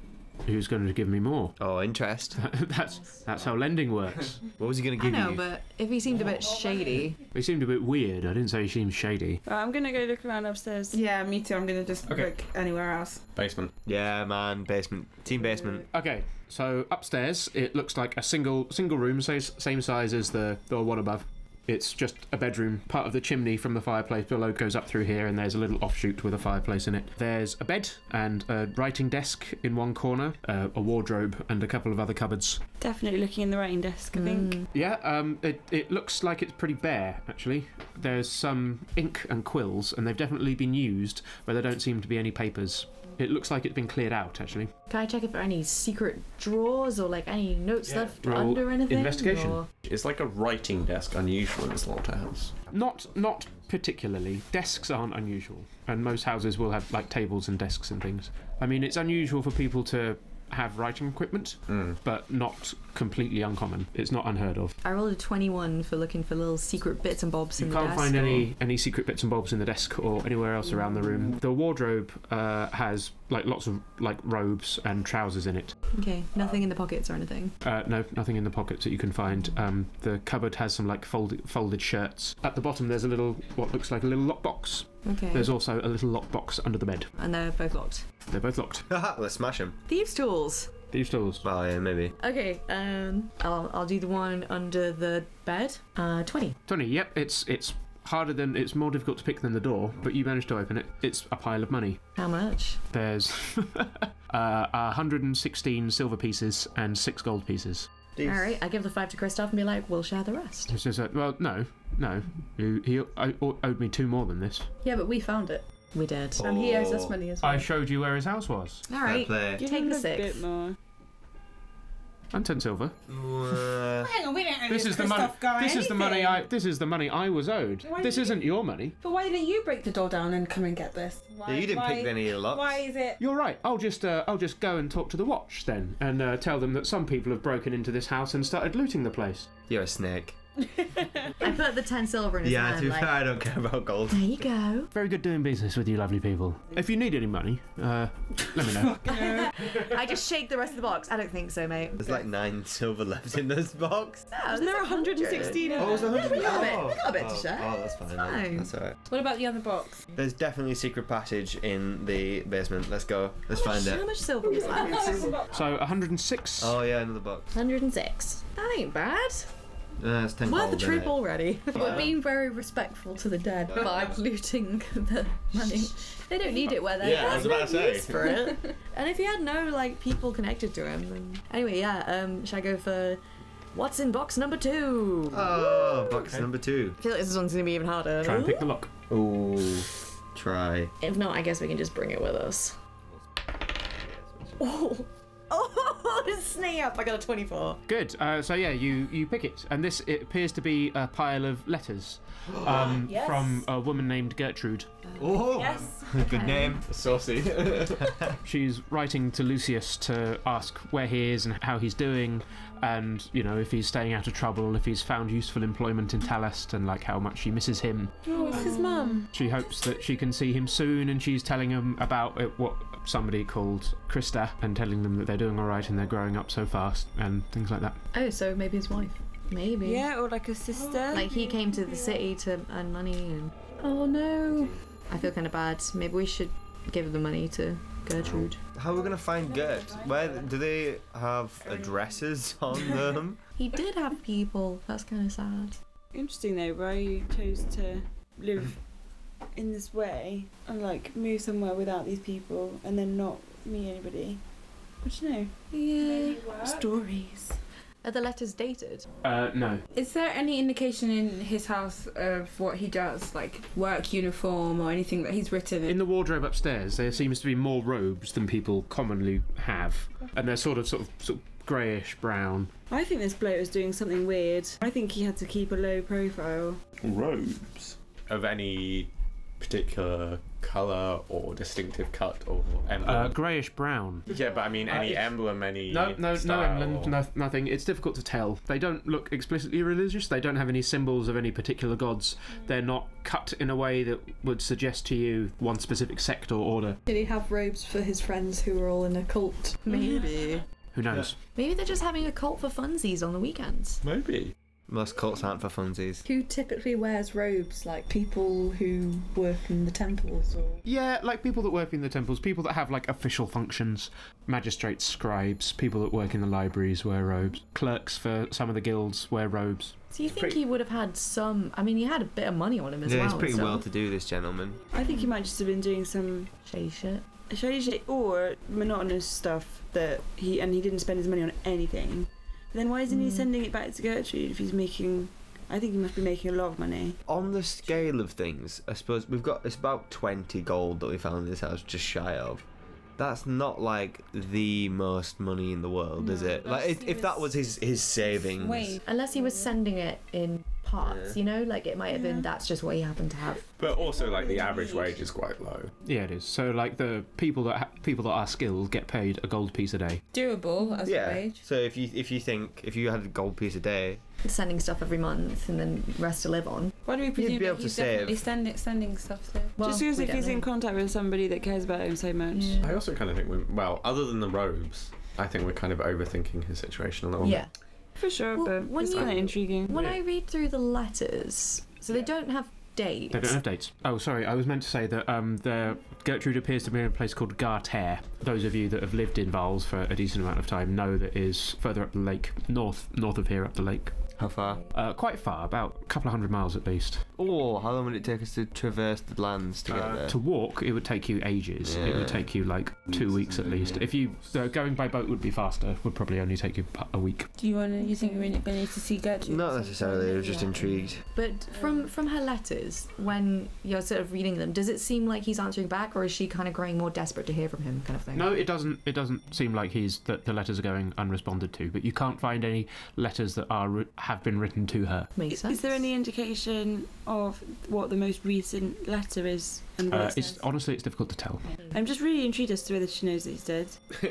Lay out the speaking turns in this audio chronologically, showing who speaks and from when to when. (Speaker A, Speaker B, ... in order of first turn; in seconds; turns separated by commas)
Speaker A: 0.5-1.6, Speaker B: 1.6-2.4, Speaker A: 2.4-4.4, Speaker B: 4.6-5.4, Speaker C: 5.0-7.2, Speaker A: 7.3-9.4, Speaker D: 9.5-11.0, Speaker E: 10.9-13.2, Speaker F: 13.3-13.7, Speaker B: 13.9-15.8, Speaker A: 15.9-32.6, Speaker D: 32.8-34.6, Speaker C: 34.1-34.7, Speaker A: 34.7-44.7, Speaker C: 44.9-49.7, Speaker A: 47.9-49.6, Speaker F: 49.8-52.6, Speaker A: 52.7-64.8, Speaker F: 61.7-62.0, Speaker C: 64.8-68.4, Speaker A: 67.6-75.8, Speaker C: 75.9-77.5, Speaker A: 77.6-87.1, Speaker C: 85.0-85.5, Speaker C: 87.2-88.0, Speaker A: 88.3-88.9, Speaker B: 88.9-89.8, Speaker C: 89.9-90.8, Speaker A: 90.9-91.5, Speaker B: 91.4-92.2, Speaker C: 92.2-96.6, Speaker A: 96.7-102.0, Speaker C: 102.2-102.8, Speaker A: 102.9-107.9, Speaker B: 108.2-108.6, Speaker C: 108.2-110.7, Speaker A: 110.7-114.7, Speaker G: 114.8-115.7, Speaker C: 115.9-116.4, Speaker G: 116.4-117.7, Speaker B: 116.4-117.1, Speaker A: 117.4-118.8, Speaker C: 118.9-120.4, Speaker B: 119.0-119.6, Speaker D: 119.6-120.8, Speaker A: 122.3-123.0, Speaker B: 123.1-124.1, Speaker E: 123.9-126.4, Speaker A: 124.7-129.0, Speaker E: 127.9-128.4, Speaker E: 129.0-133.2, Speaker B: 131.5-132.8, Speaker A: 133.2-139.5, Speaker B: 139.7-140.4, Speaker E: 141.0-141.3, Speaker C: 141.4-143.2, Speaker B: 142.4-144.3, Speaker C: 144.1-144.9, Speaker A: 144.9-149.1, Speaker C: 149.1-152.2, Speaker D: 149.2-149.4, Speaker B: 152.0-154.3, Speaker C: 154.3-158.7, Speaker D: 154.5-156.7, Speaker E: 155.6-155.9, Speaker B: 155.8-159.0, Speaker E: 159.1-160.0, Speaker B: 160.2-164.1, Speaker C: 163.5-165.4, Speaker E: 164.5-165.4, Speaker A: 165.5-166.8, Speaker B: 166.6-167.5, Speaker C: 167.5-169.5, Speaker B: 170.0-171.2, Speaker C: 170.4-172.0, Speaker B: 171.8-172.1, Speaker G: 171.8-178.4, Speaker C: 175.6-175.9, Speaker C: 176.7-186.2, Speaker F: 176.9-178.4, Speaker B: 185.3-187.0, Speaker C: 187.0-188.7, Speaker A: 188.2-188.9, Speaker B: 189.1-190.9, Speaker C: 191.0-192.8, Speaker C: 194.6-197.8, Speaker A: 197.9-204.9, Speaker B: 202.6-202.9, Speaker C: 202.6-203.7, Speaker B: 205.2-206.8, Speaker D: 205.5-206.5, Speaker C: 206.1-206.8, Speaker F: 206.8-208.2, Speaker B: 208.0-208.3, Speaker A: 208.4-218.2, Speaker D: 218.3-219.2, Speaker E: 218.3-219.3, Speaker A: 219.3-228.0, Speaker G: 228.1-229.2, Speaker C: 229.5-230.1, Speaker D: 229.8-231.6, Speaker E: 230.7-232.2, Speaker C: 231.1-233.6, Speaker G: 233.8-234.8, Speaker C: 235.1-238.6, Speaker B: 238.2-243.4, Speaker D: 238.9-240.5, Speaker C: 243.6-245.8, Speaker D: 246.1-248.8, Speaker D: 249.6-254.4, Speaker D: 255.0-255.5, Speaker C: 255.7-259.1, Speaker E: 256.0-256.8, Speaker D: 256.1-257.0, Speaker A: 259.2-259.8, Speaker E: 259.9-266.0, Speaker A: 265.9-272.7, Speaker D: 272.9-276.8, Speaker F: 277.0-283.3, Speaker A: 283.0-284.3, Speaker F: 284.3-287.2, Speaker A: 284.8-297.0, Speaker G: 297.1-299.9, Speaker C: 299.9-300.6, Speaker A: 300.9-301.4, Speaker C: 301.6-304.0, Speaker F: 304.0-304.5, Speaker B: 304.9-306.2, Speaker G: 306.2-310.8, Speaker A: 310.9-320.0, Speaker C: 320.1-323.9, Speaker B: 323.1-324.8, Speaker D: 324.9-326.5, Speaker C: 326.6-327.3, Speaker D: 327.5-337.2, Speaker C: 333.1-333.5, Speaker B: 337.3-342.6, Speaker B: 343.2-349.0, Speaker E: 346.2-347.6, Speaker E: 348.2-349.0, Speaker C: 349.1-353.7, Speaker B: 351.0-351.4, Speaker E: 352.1-352.5, Speaker F: 353.7-355.9, Speaker E: 353.9-355.2, Speaker A: 356.1-360.2, Speaker E: 360.3-361.6, Speaker B: 361.1-364.2, Speaker C: 364.4-367.0, Speaker E: 367.0-369.8, Speaker B: 367.4-368.5, Speaker C: 369.8-370.7, Speaker D: 369.8-372.9, Speaker C: 372.5-373.0, Speaker F: 372.8-377.6, Speaker C: 377.4-377.7, Speaker D: 378.2-380.0, Speaker C: 378.6-383.6, Speaker F: 379.2-379.5, Speaker A: 379.9-380.2, Speaker A: 383.3-394.1, Speaker B: 394.4-394.8, Speaker A: 394.9-397.2, Speaker B: 397.4-400.4, Speaker F: 399.9-400.2, Speaker A: 400.1-407.5, Speaker B: 401.8-402.4, Speaker F: 403.1-404.1, Speaker E: 407.6-410.9, Speaker B: 409.4-411.2, Speaker C: 411.2-418.5, Speaker A: 418.4-425.3, Speaker C: 425.4-426.1, Speaker D: 425.5-430.6, Speaker A: 430.1-431.6, Speaker D: 431.9-434.0